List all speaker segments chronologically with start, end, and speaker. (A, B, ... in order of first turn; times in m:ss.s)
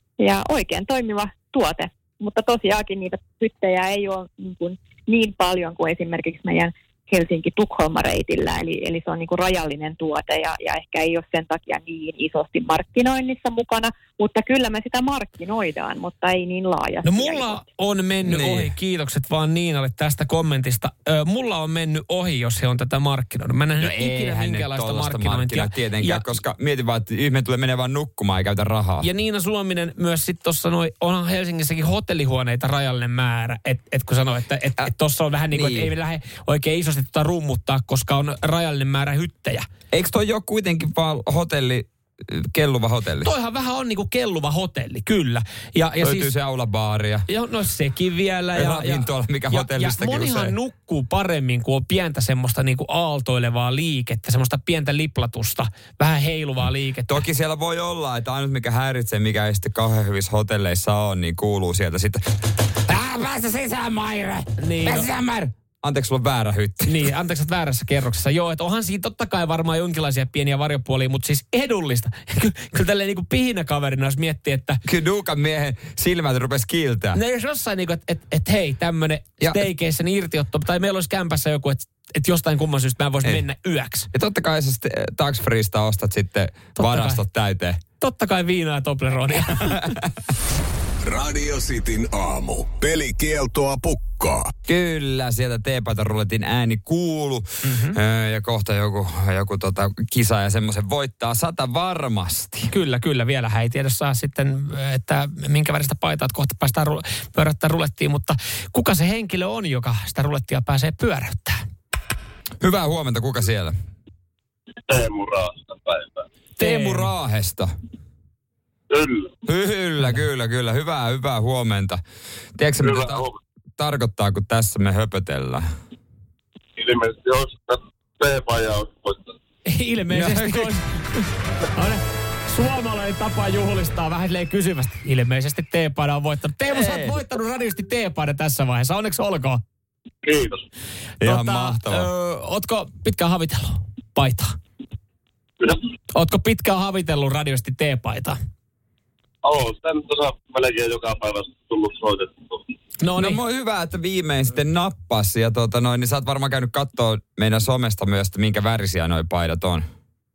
0:00.2-0:17.6 A
0:17.0-0:26.3 B
0:18.2-0:18.7 C
0:23.8-0:29.1 C
0:29.0-0:39.6 B
0:35.5-0:35.9 C
0:39.9-0:43.3 C
0:43.2-0:46.3 B
0:46.0-0:47.3 C
0:47.3-0:57.2 B
0:48.5-0:50.5 C
0:57.1-1:02.2 C
1:02.7-1:07.0 C
1:04.6-1:05.1 B
1:06.8-1:14.8 B
1:14.8-1:17.2 C
1:17.1-1:24.1 B
1:24.1-1:27.8 C
1:26.8-1:27.2 B
1:28.0-1:29.9 B
1:29.4-1:30.0 C
1:31.0-1:34.5 D
1:34.6-1:42.7 C
1:37.6-1:38.0 B
1:42.7-1:51.6 B
1:52.6-1:53.8 C
1:54.9-1:56.2 E
1:56.6-1:57.7 C
1:56.6-1:57.1 B
1:58.9-1:59.4 E
1:59.4-2:02.0 C
2:02.6-2:05.6 C
2:02.8-2:03.4 E
2:06.8-2:09.4 E
2:09.6-2:19.6 B
2:10.1-2:10.8 C
2:16.7-2:17.2 C
2:20.2-2:20.6 E
2:21.2-2:22.1 C
2:21.2-2:24.6 B
2:26.1-2:28.4 B
2:29.4-2:32.6 E
2:33.0-2:33.4 B
2:33.1-2:39.9 C